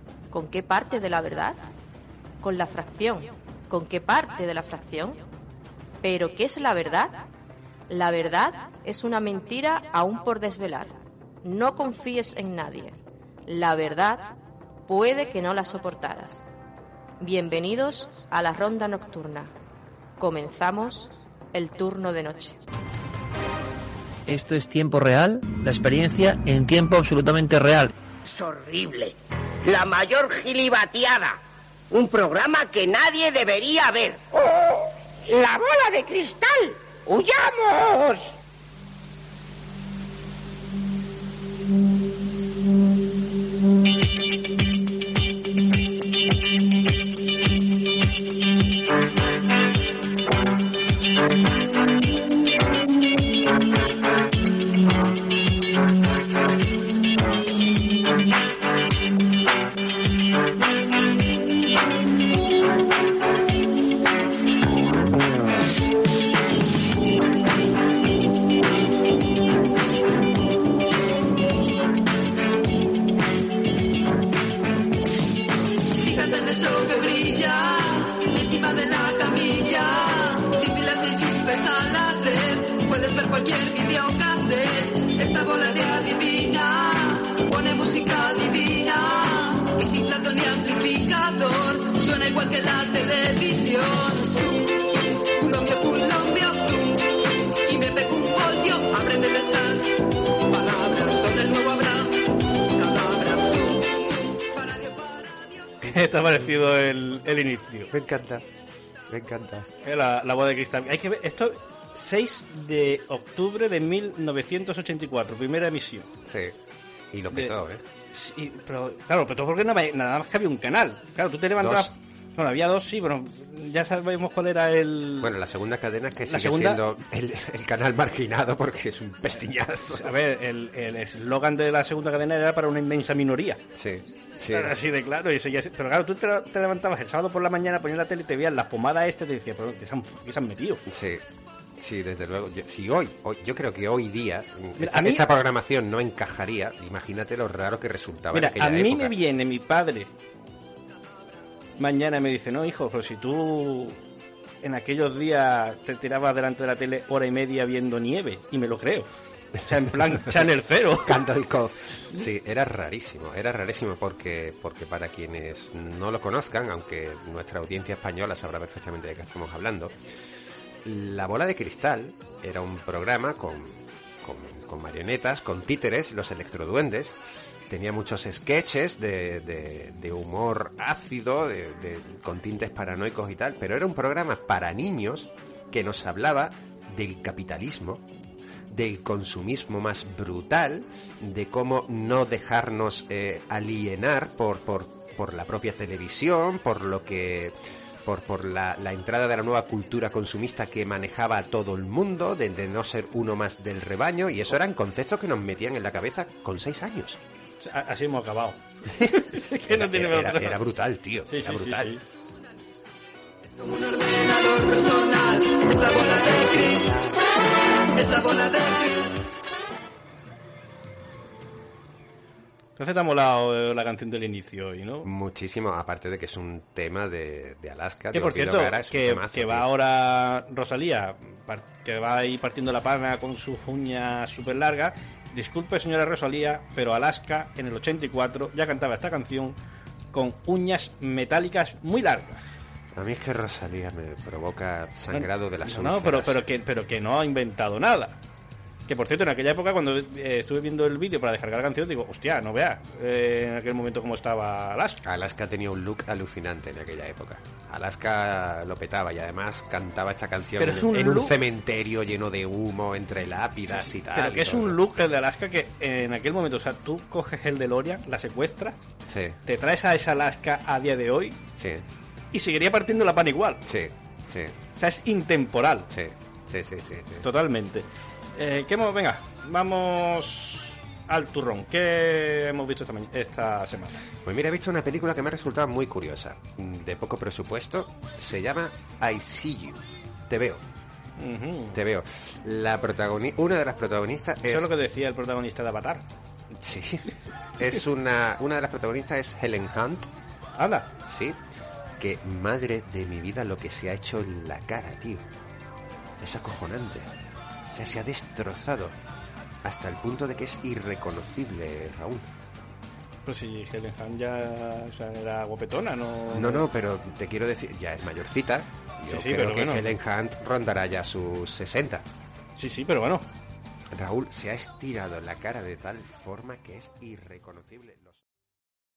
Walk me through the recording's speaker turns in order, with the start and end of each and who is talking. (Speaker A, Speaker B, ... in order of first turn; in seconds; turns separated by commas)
Speaker A: 0.3-1.6, Speaker A: 2.4-5.2, Speaker A: 6.0-7.2, Speaker A: 7.9-14.3, Speaker A: 14.9-16.4, Speaker A: 17.2-19.5, Speaker A: 20.2-22.6, Speaker B: 24.3-27.9, Speaker C: 28.3-31.4, Speaker C: 31.9-38.3, Speaker D: 76.0-105.8, Speaker E: 105.8-107.9, Speaker F: 107.9-108.5, Speaker F: 109.1-109.7, Speaker E: 109.8-116.1, Speaker F: 116.2-116.5, Speaker F: 117.1-117.8, Speaker E: 118.1-125.3, Speaker F: 121.6-121.9, Speaker F: 125.2-130.1, Speaker E: 126.3-126.8, Speaker E: 129.9-133.6, Speaker F: 133.8-134.8, Speaker E: 134.5-140.8, Speaker F: 140.9-141.2, Speaker F: 141.8-149.2, Speaker E: 144.8-145.3, Speaker E: 148.3-150.1, Speaker E: 151.8-154.0, Speaker E: 154.6-159.1, Speaker E: 159.6-161.3, Speaker F: 161.1-169.9, Speaker F: 170.8-177.2, Speaker F: 177.7-188.1, Speaker F: 188.7-207.2, Speaker E: 207.6-210.6, Speaker F: 208.9-211.9, Speaker E: 211.3-212.0, Speaker D: 213.5-217.1, Speaker D: 217.9-219.2, Speaker E: 222.8-225.1, Speaker F: 225.0-229.7, Speaker E: 228.1-239.6, Speaker E: 240.1-242.4, Speaker F: 242.9-246.4, Speaker E: 245.1-248.2, Speaker E: 248.9-255.0, Speaker F: 255.0-264.8, Speaker E: 260.6-261.4, Speaker E: 263.7-268.8, Speaker F: 269.1-269.4, Speaker E: 269.5-271.4, Speaker F: 271.6-271.8, Speaker E: 272.3-273.6, Speaker F: 273.7-274.6, Speaker E: 274.8-275.9, Speaker F: 275.9-277.3, Speaker E: 277.2-284.0, Speaker F: 284.2-290.6, Speaker E: 291.2-291.8, Speaker F: 291.7-294.7, Speaker E: 294.5-296.1, Speaker F: 296.6-300.1, Speaker E: 300.6-300.9, Speaker F: 301.1-301.4, Speaker F: 302.0-305.3, Speaker F: 306.2-307.1, Speaker F: 307.7-308.9, Speaker F: 309.6-312.3, Speaker E: 313.3-316.6, Speaker F: 316.3-322.1, Speaker E: 319.1-319.9, Speaker E: 322.6-323.2, Speaker F: 323.9-328.2